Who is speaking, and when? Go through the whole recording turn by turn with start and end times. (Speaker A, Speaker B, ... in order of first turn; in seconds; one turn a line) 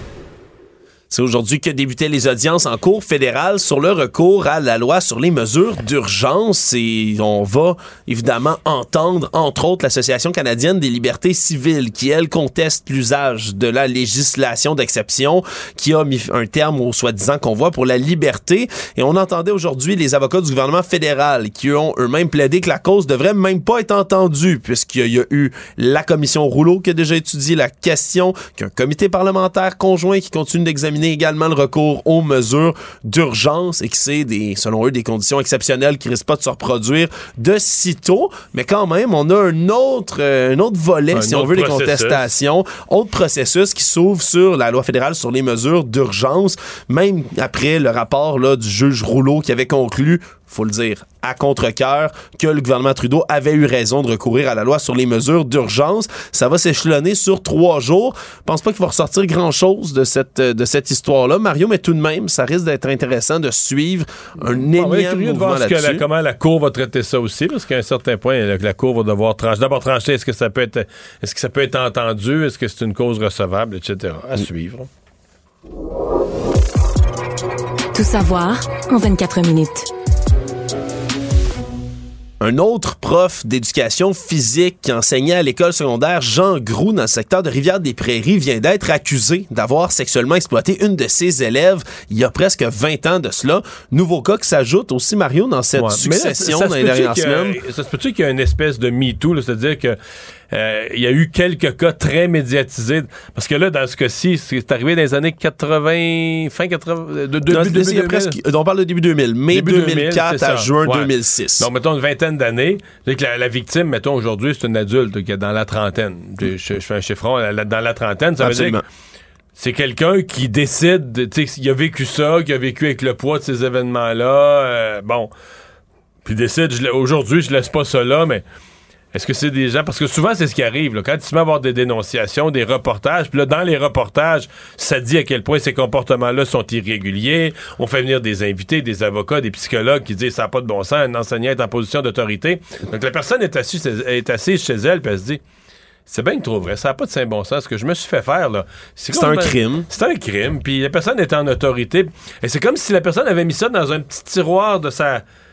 Speaker A: 1.1-66.0
Speaker B: 41.1-42.3
Speaker B: 64.4-74.9
Speaker C: 77.9-79.8
Speaker A: 82.4-97.6
Speaker B: 95.8-100.0
Speaker B: 100.5-108.3
Speaker A: 107.5-111.7
Speaker B: 109.5-118.8
Speaker A: 118.4-118.8
Speaker B: 119.5-125.3
Speaker B: 126.2-128.4
Speaker B: 129.1-145.4
Speaker B: 146.1-155.2
Speaker A: 149.1-149.9